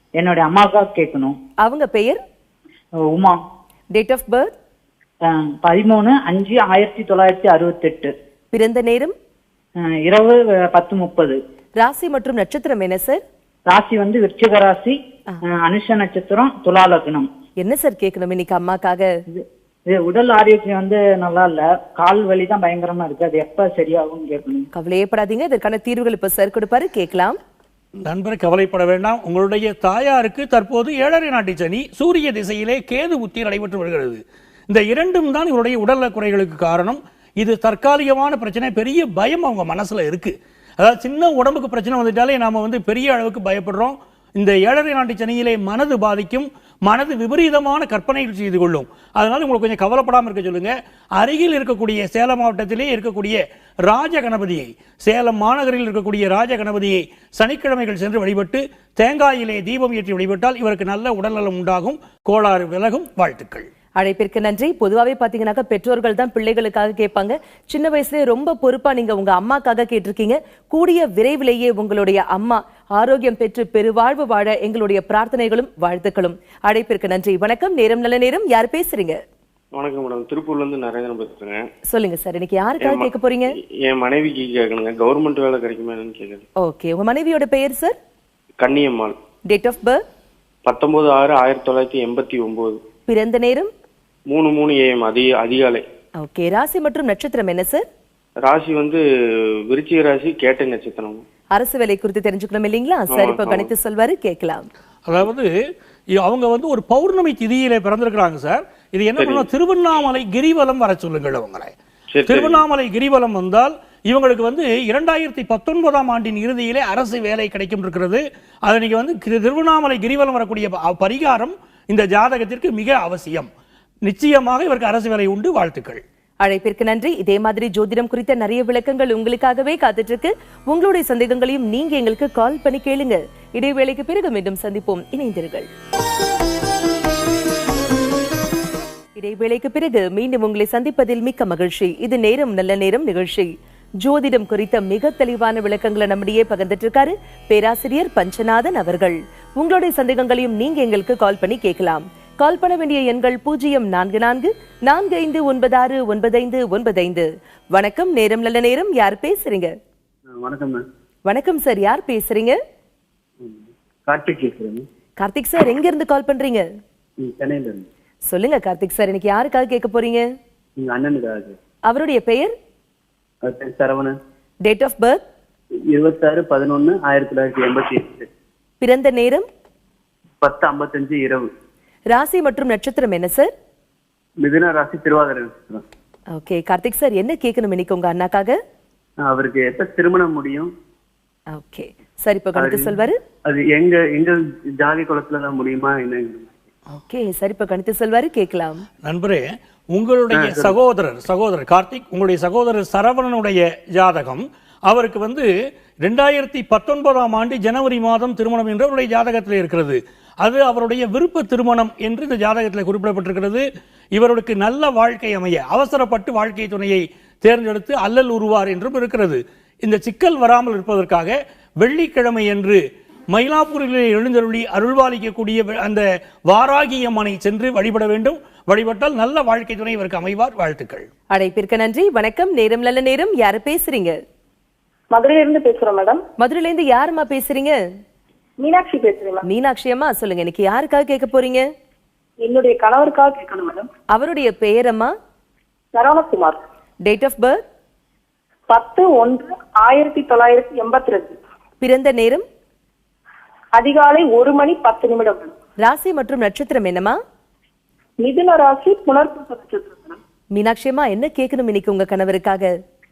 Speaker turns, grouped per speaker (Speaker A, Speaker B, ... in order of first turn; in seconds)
Speaker A: 0.2-1.4, 3.0-3.4, 5.3-8.1, 9.8-11.4, 13.7-17.3, 19.3-24.7
Speaker B: 1.6-2.2, 3.9-4.5, 8.5-9.2, 11.8-13.2, 17.6-19.1, 24.7-27.4, 64.0-79.2, 81.9-83.5, 86.6-88.0, 89.5-90.0, 93.1-93.7, 96.2-97.8, 101.6-104.7, 126.4-135.7, 139.2-159.7, 161.3-162.6, 165.2-166.7, 168.3-170.2, 171.9-172.5, 174.7-175.2, 178.8-179.5, 182.1-183.5, 186.3-188.6, 191.5-193.2, 196.9-198.8, 231.3-234.2, 236.4-237.8, 239.4-241.7, 244.1-245.1, 247.1-247.6, 251.8-252.4, 255.8-257.2, 260.6-262.7
Speaker C: 28.0-63.7, 105.1-105.5, 106.2-111.7, 112.3-123.5, 124.0-126.0, 199.0-205.5, 206.0-231.1
Speaker D: 79.8-81.7, 82.8-83.1, 83.6-86.5, 88.6-89.2, 90.7-92.8, 94.3-95.8, 98.5-99.0, 99.7-101.2, 103.1-103.7, 109.2-109.5, 112.1-112.6
Speaker E: 160.3-160.8, 163.4-164.8, 167.2-167.9, 170.8-171.6, 173.5-174.2, 175.9-178.3, 180.4-181.5, 184.4-185.8, 189.2-190.7, 192.6-196.5, 200.3-200.8
Speaker F: 235.1-236.2, 238.6-239.4, 242.4-243.9, 245.9-246.6, 248.7-251.3, 253.8-255.5, 258.2-260.2